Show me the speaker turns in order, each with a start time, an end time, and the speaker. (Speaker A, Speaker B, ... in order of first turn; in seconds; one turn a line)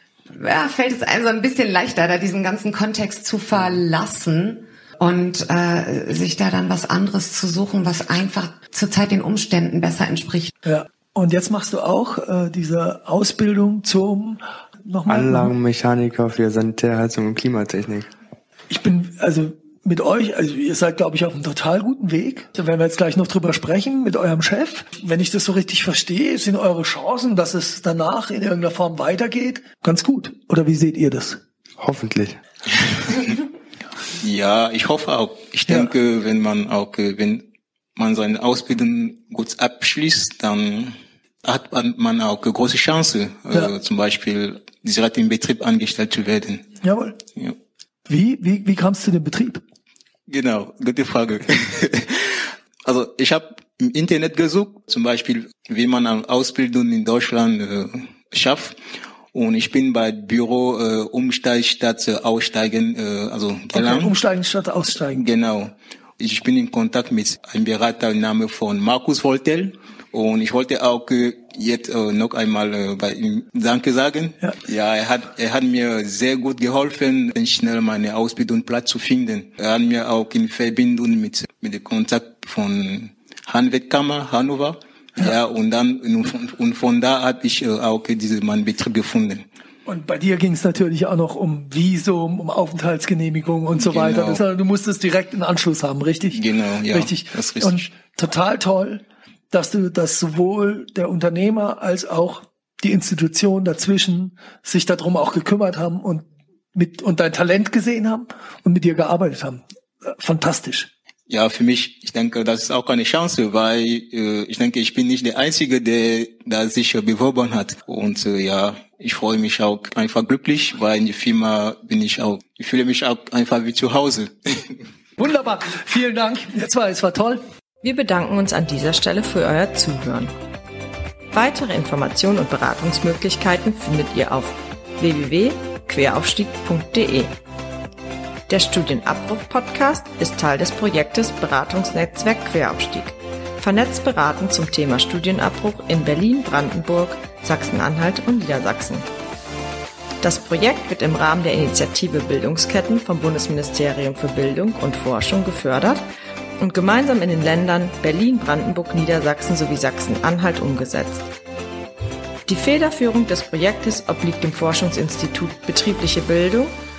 Speaker A: 0.3-10.5
Speaker B: 10.6-15.5
Speaker C: 15.1-18.1
Speaker B: 18.7-31.4
Speaker C: 31.8-32.4
Speaker D: 34.2-46.7
Speaker B: 46.8-47.2
Speaker B: 48.1-49.6
Speaker D: 50.3-58.8
Speaker D: 59.3-64.2
Speaker B: 63.7-65.2
Speaker D: 65.1-89.5
Speaker B: 89.9-109.6
Speaker D: 93.7-94.4
Speaker D: 96.3-97.9
Speaker B: 110.2-110.9
Speaker D: 111.3-124.8
Speaker B: 125.2-127.4
Speaker E: 127.8-130.3
Speaker E: 131.3-137.3
Speaker E: 138.5-149.1
Speaker E: 150.2-156.0
Speaker E: 156.6-161.3
Speaker E: 162.5-166.7